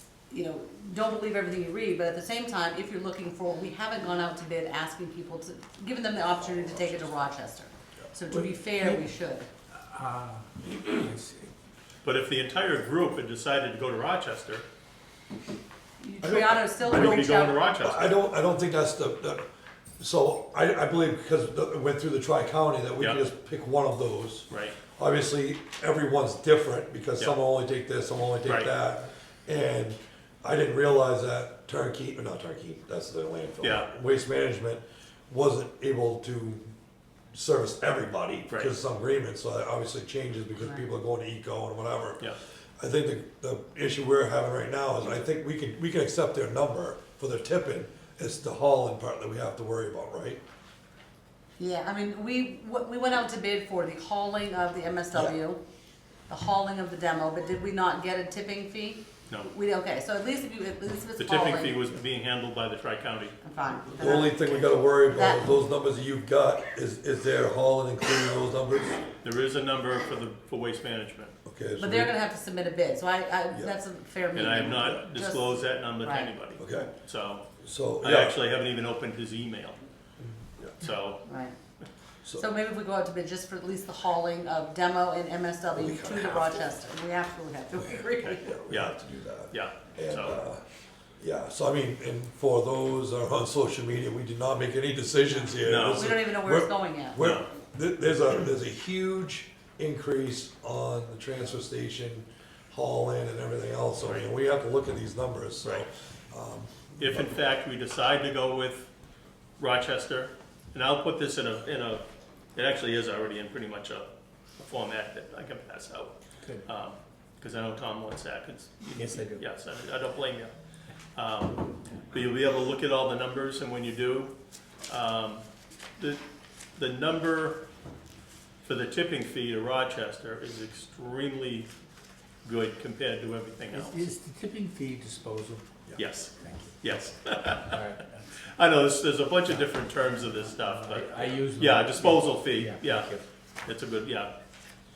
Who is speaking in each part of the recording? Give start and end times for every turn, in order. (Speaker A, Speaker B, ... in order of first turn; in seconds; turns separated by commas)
Speaker A: 0.3-9.5, Speaker B: 8.3-9.0, Speaker C: 9.8-11.5, Speaker D: 12.0-14.6, Speaker A: 16.0-17.7, Speaker B: 16.2-17.2, Speaker D: 16.8-18.1, Speaker B: 17.8-19.4, Speaker B: 20.0-36.7, Speaker D: 24.5-24.8, Speaker D: 28.4-28.7, Speaker D: 33.6-33.9, Speaker B: 37.3-50.4, Speaker D: 38.5-38.7, Speaker A: 51.6-55.6, Speaker A: 56.3-61.8, Speaker D: 61.2-63.4, Speaker A: 63.4-65.4, Speaker B: 64.0-69.1, Speaker D: 69.2-71.3, Speaker B: 71.4-72.1, Speaker A: 71.8-76.3, Speaker D: 74.3-77.4, Speaker B: 76.6-76.9, Speaker B: 77.6-78.3, Speaker D: 78.0-79.8, Speaker B: 80.5-80.7, Speaker D: 80.8-81.3, Speaker A: 81.3-81.5, Speaker A: 82.4-88.5, Speaker B: 85.7-86.6, Speaker B: 87.8-90.6, Speaker D: 88.2-88.9, Speaker D: 89.5-90.4, Speaker B: 91.2-107.3, Speaker D: 95.6-96.1, Speaker A: 95.8-97.2, Speaker D: 97.2-97.5, Speaker D: 107.0-108.9, Speaker D: 109.6-112.0, Speaker D: 112.5-116.1, Speaker D: 116.6-120.5, Speaker C: 118.9-119.4, Speaker D: 121.1-124.3, Speaker D: 124.9-125.4, Speaker D: 126.8-127.6, Speaker D: 128.6-131.7, Speaker D: 132.4-134.0, Speaker C: 133.7-135.7, Speaker D: 135.9-137.8, Speaker C: 136.4-138.3, Speaker D: 138.4-144.3, Speaker C: 139.5-143.2